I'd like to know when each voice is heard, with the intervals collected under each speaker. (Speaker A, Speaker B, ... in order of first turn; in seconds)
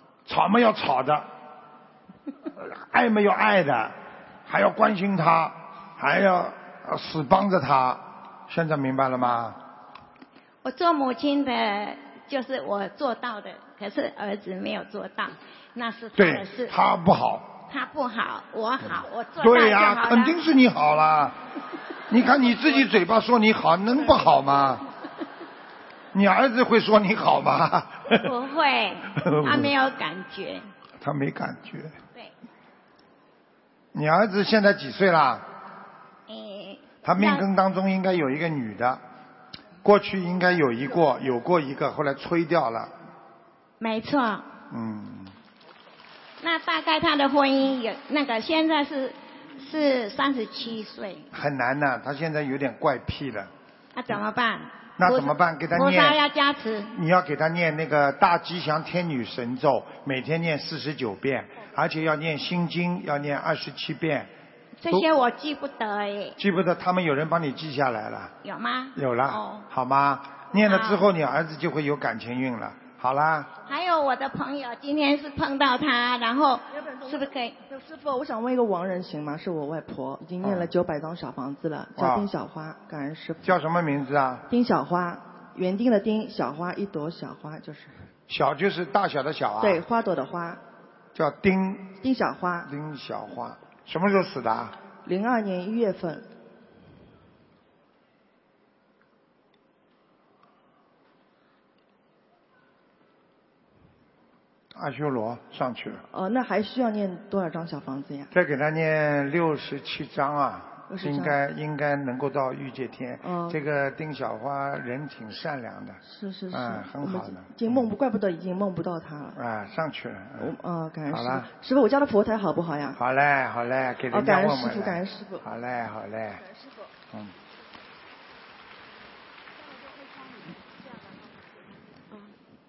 Speaker A: 0.3-1.3, 2.6-9.6, 16.2-17.5, 18.9-21.4, 22.1-24.8, 26.1-28.3, 29.2-29.8, 31.0-31.9, 33.9-35.5, 37.0-39.0, 39.8-42.9, 44.7-45.3, 51.3-53.5, 55.0-56.2, 56.9-64.3, 66.4-68.3, 69.0-73.5, 80.4-80.7, 82.0-82.3, 83.4-84.5, 88.3-89.8, 91.1-92.0, 92.7-94.8, 104.7-106.0, 108.3-116.0, 116.5-117.8, 119.3-120.5, 121.1-121.5, 122.9-126.4
Speaker B: 10.6-16.8, 17.7-20.4, 28.1-30.7, 36.3-37.5, 43.8-44.5, 46.4-51.3, 53.9-56.9, 64.8-66.4, 68.4-69.7, 70.6-71.1, 73.7-77.6
Speaker C: 77.7-83.5, 84.5-87.9, 89.6-90.6, 92.0-92.7, 95.0-96.2, 106.1-108.3, 110.9-111.4, 113.2-113.6, 116.0-119.4, 120.4-123.0, 124.1-125.4